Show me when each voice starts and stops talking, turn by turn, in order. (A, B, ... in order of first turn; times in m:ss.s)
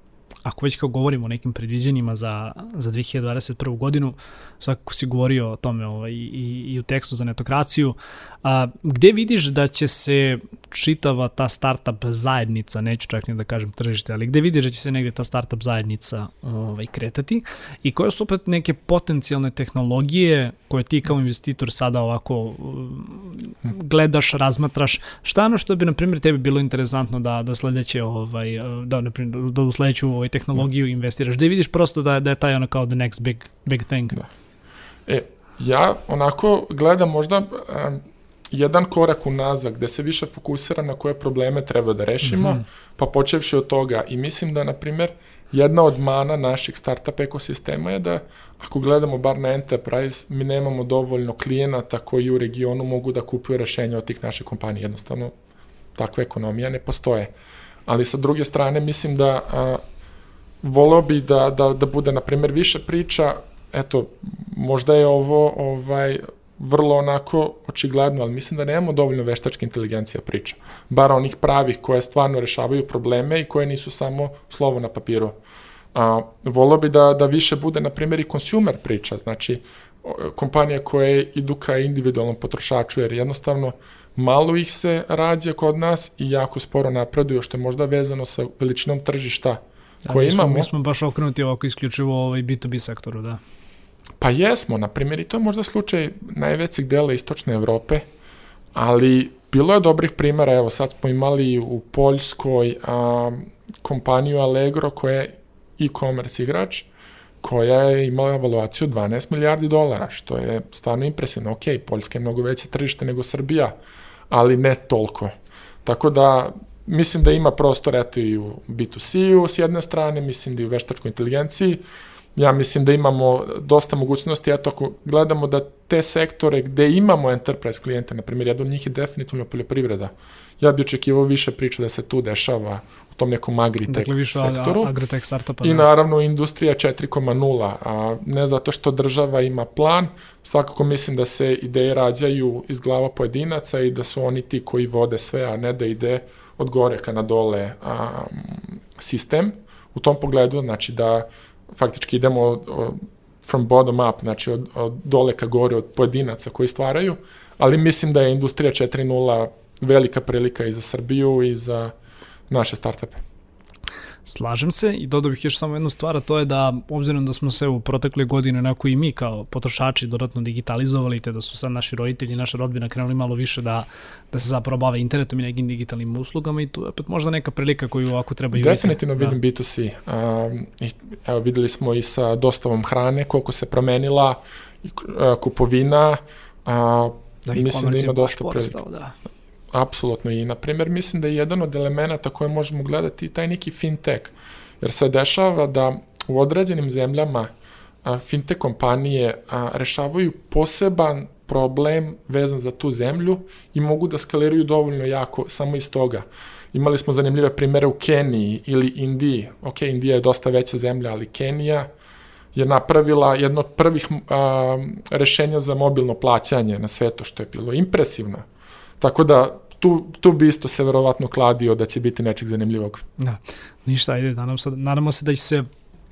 0:00.4-0:34.2 A
0:35.1-0:55.3 B
0:42.2-0:42.6 A
0:56.0-0:57.3 B
0:57.9-0:59.8 B
1:00.6-1:15.4 B
1:15.9-1:30.7 B
1:30.1-1:33.4 A
1:34.2-1:38.0 B
1:38.8-1:46.9 B
1:47.4-1:53.7 B
1:54.3-1:55.3 B
1:55.8-2:01.8 B
2:02.4-2:14.9 B
2:13.9-2:15.9 A
2:15.6-2:41.9 B
2:42.5-2:43.2 B
2:44.3-2:59.4 A
2:58.5-3:08.8 B
3:07.5-3:09.2 A
3:09.7-3:17.5 B
3:18.0-3:31.9 B
3:32.6-3:38.4 B
3:39.0-3:43.0 B
3:43.2-3:45.7 A